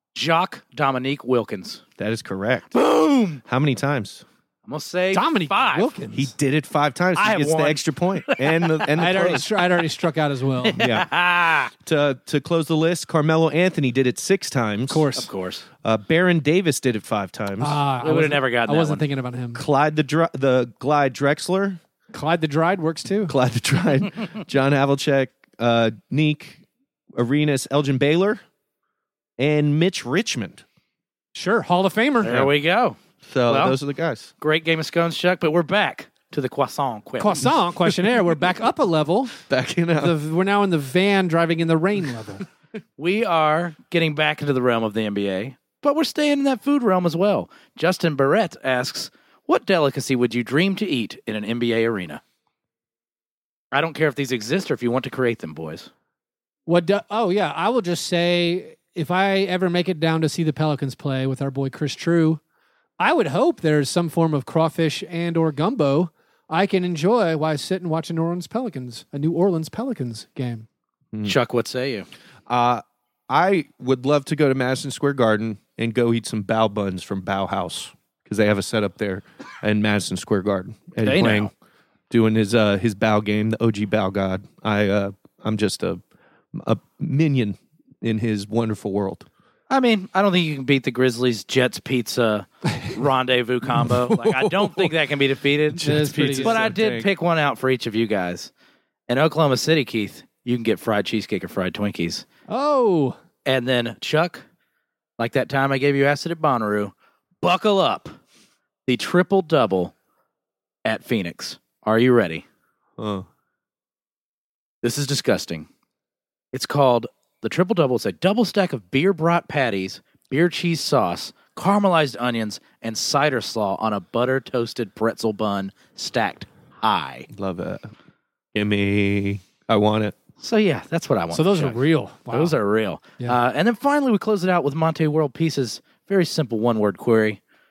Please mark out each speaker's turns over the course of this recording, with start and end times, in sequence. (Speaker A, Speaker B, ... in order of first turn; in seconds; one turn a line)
Speaker A: 0.1-1.8
Speaker B: 2.0-2.8
Speaker A: 2.7-3.4
Speaker B: 3.5-4.2
Speaker A: 4.7-6.0
Speaker C: 5.1-6.3
Speaker B: 6.1-9.5
Speaker A: 7.2-8.8
Speaker C: 8.9-10.8
Speaker A: 10.6-11.7
Speaker B: 10.8-11.1
Speaker B: 11.8-15.1
Speaker C: 14.9-15.3
Speaker A: 15.2-15.7
Speaker B: 15.8-17.8
Speaker C: 17.6-19.6
Speaker A: 18.0-19.1
Speaker B: 19.5-21.8
Speaker C: 22.1-23.3
Speaker B: 23.3-26.6
Speaker B: 27.1-28.4
Speaker B: 29.4-30.6
Speaker C: 31.3-32.4
Speaker A: 32.2-33.0
Speaker B: 33.3-34.3
Speaker A: 33.5-33.8
Speaker A: 34.4-37.5
Speaker C: 37.2-39.4
Speaker B: 39.5-40.2
Speaker C: 40.0-42.4
Speaker A: 43.0-52.2
Speaker A: 53.7-55.9
Speaker C: 56.7-62.4
Speaker C: 63.0-70.7
Speaker A: 71.2-72.1
Speaker B: 72.5-81.5
Speaker A: 81.0-81.5
Speaker B: 82.1-86.0
Speaker B: 86.5-89.3
Speaker A: 89.7-98.5
Speaker B: 93.9-94.9
Speaker B: 95.7-97.1
Speaker C: 95.8-96.7
Speaker A: 99.1-102.3
Speaker C: 102.5-103.2
Speaker A: 103.5-104.4
Speaker A: 105.2-108.2
Speaker A: 108.9-109.9
Speaker A: 110.8-112.5
Speaker B: 113.0-113.3
Speaker A: 114.8-115.7
Speaker A: 116.5-127.3
Speaker B: 127.3-127.9
Speaker B: 128.5-130.2
Speaker A: 130.4-131.8
Speaker C: 131.3-132.6
Speaker A: 132.3-137.4